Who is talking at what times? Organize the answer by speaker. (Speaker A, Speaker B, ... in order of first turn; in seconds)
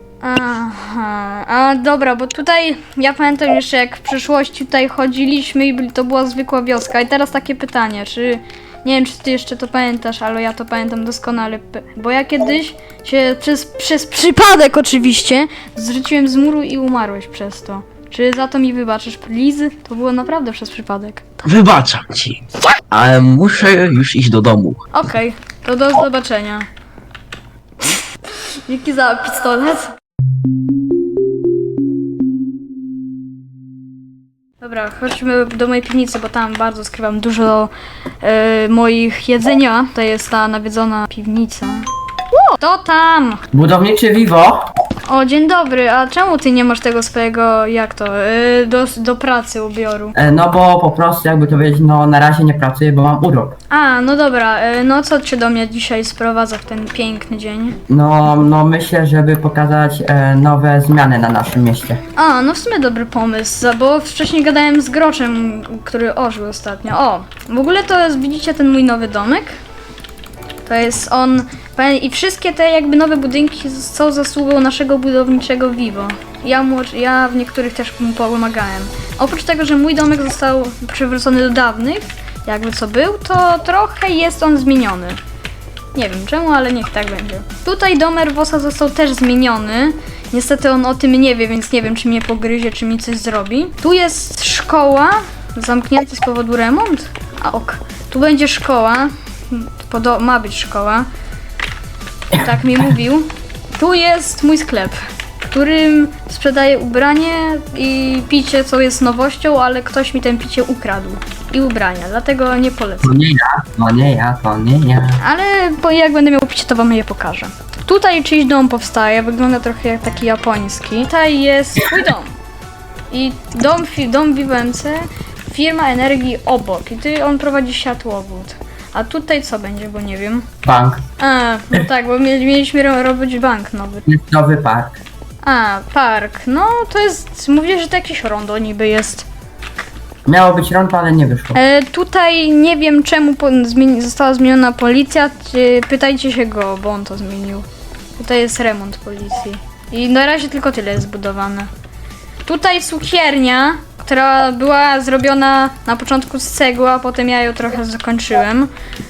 Speaker A: 0.2-21.4, 24.9-26.7, 28.7-29.9, 34.6-43.4, 45.0-50.1, 53.7-57.8, 62.1-69.5, 70.7-85.2, 85.9-101.0, 102.3-104.9, 105.5-113.2, 115.2-122.3, 123.1-130.4, 131.2-134.1, 135.4-139.2, 141.5-147.7, 148.2-151.7, 152.4-158.7
Speaker B: 21.4-22.4, 22.9-24.8
Speaker C: 43.5-44.7, 50.1-53.5, 57.9-62.0, 113.0-115.2, 130.6-131.0, 134.1-135.0, 140.2-141.6